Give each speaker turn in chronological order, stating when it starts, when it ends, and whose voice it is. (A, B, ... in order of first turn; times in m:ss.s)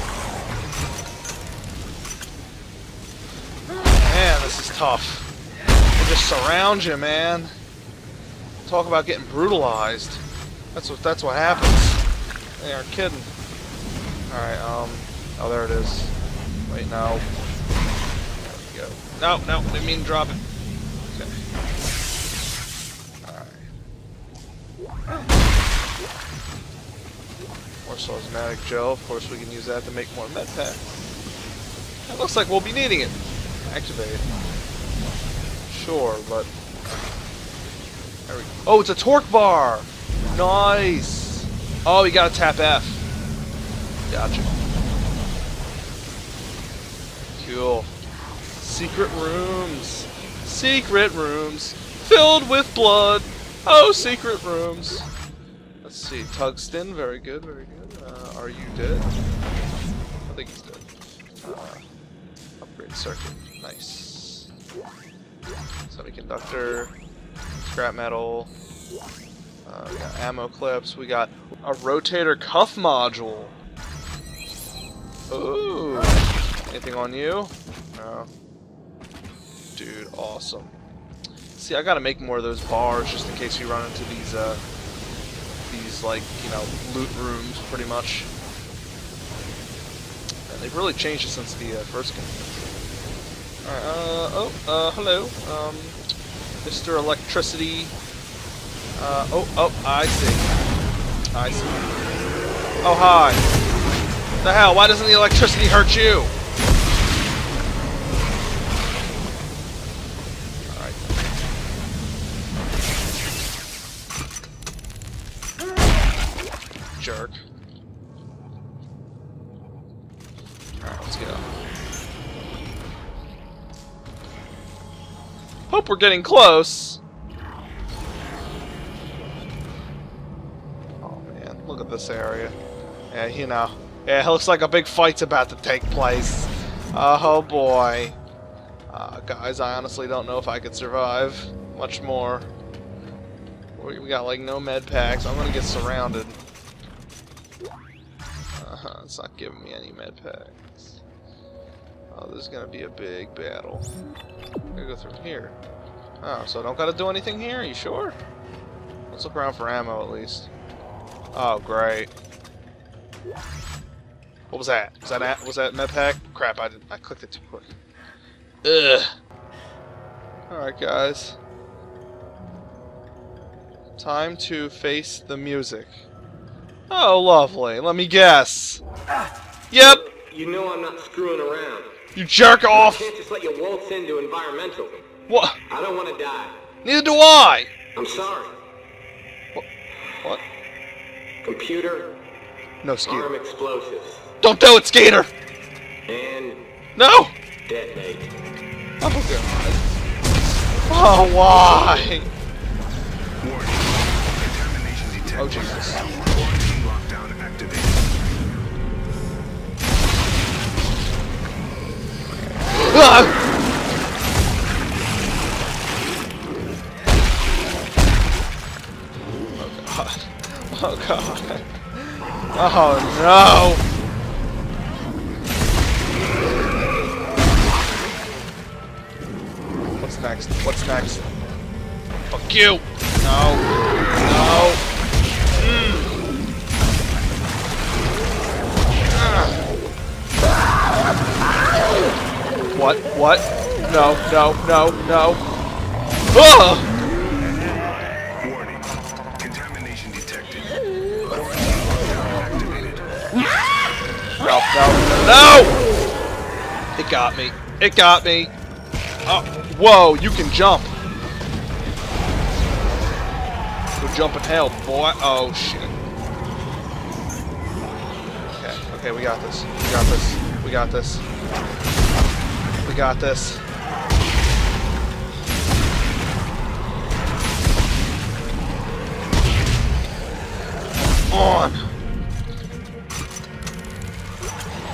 0:03.7-0:05.3 A
0:05.9-0:07.5 A
0:08.6-0:10.2 A
0:10.7-0:12.0 A
0:12.6-0:13.3 A
0:14.3-0:16.1 A
0:16.7-0:17.2 A
0:18.4-0:20.4 A
0:21.1-0:21.4 A
0:23.2-0:23.7 A
0:27.8-0:30.8 A
0:32.1-0:34.2 A
0:35.7-0:36.5 A
0:38.3-0:43.0 A
0:44.1-0:44.6 A
0:47.4-0:47.9 A
0:48.6-0:55.1 A
0:55.8-0:59.1 A
1:00.2-1:00.8 A
1:01.4-1:01.8 A
1:02.6-1:04.5 A
1:05.9-1:06.9 A
1:07.6-1:08.5 A
1:09.6-1:13.5 A
1:15.3-1:18.3 A
1:19.7-1:20.7 A
1:21.6-1:24.6 A
1:25.6-1:28.3 A
1:30.5-1:32.6 A
1:33.6-1:36.0 A
1:36.6-1:37.9 A
1:39.0-1:40.5 A
1:41.3-1:42.0 A
1:42.8-1:43.4 A
1:44.4-1:46.3 A
1:50.7-1:51.0 A
1:57.0-1:57.4 A
2:00.8-2:01.4 A
2:05.7-2:07.0 A
2:11.0-2:12.6 A
2:13.1-2:18.2 A
2:18.9-2:22.5 A
2:23.8-2:26.4 A
2:28.5-2:31.0 A
2:32.1-2:33.9 A
2:34.7-2:35.5 A
2:36.2-2:38.2 A
2:39.1-2:40.5 A
2:41.3-2:42.1 A
2:44.5-2:47.7 A
2:48.6-2:49.1 A
2:50.5-2:51.4 A
2:54.0-2:56.0 A
2:56.9-2:58.8 A
2:59.7-3:00.0 A
2:59.9-3:02.0 B
3:02.2-3:03.1 A
3:02.7-3:05.1 B
3:05.3-3:05.6 A
3:05.7-3:06.6 B
3:06.8-3:07.7 A
3:08.0-3:08.5 B
3:11.4-3:12.2 B
3:12.8-3:13.3 A
3:13.0-3:14.2 B
3:14.4-3:15.3 A
3:16.1-3:16.6 B
3:17.0-3:17.3 A
3:17.6-3:18.3 B
3:19.0-3:19.8 A
3:20.9-3:22.3 A
3:23.4-3:28.0 C
3:25.4-3:26.0 A
3:32.6-3:33.3 A
3:39.6-3:43.8 A
3:50.0-3:51.3 A
3:52.3-3:53.7 A
3:54.2-3:54.8 A
3:55.5-3:56.2 A
3:59.1-3:59.6 A
4:02.7-4:05.4 A
4:06.3-4:06.9 A
4:08.4-4:10.7 C
4:11.2-4:13.2 C
4:14.4-4:15.8 A
4:17.0-4:18.5 A
4:19.2-4:20.9 A
4:24.0-4:26.0 A
4:28.5-4:31.2 A
4:32.8-4:33.6 A
4:41.3-4:41.8 A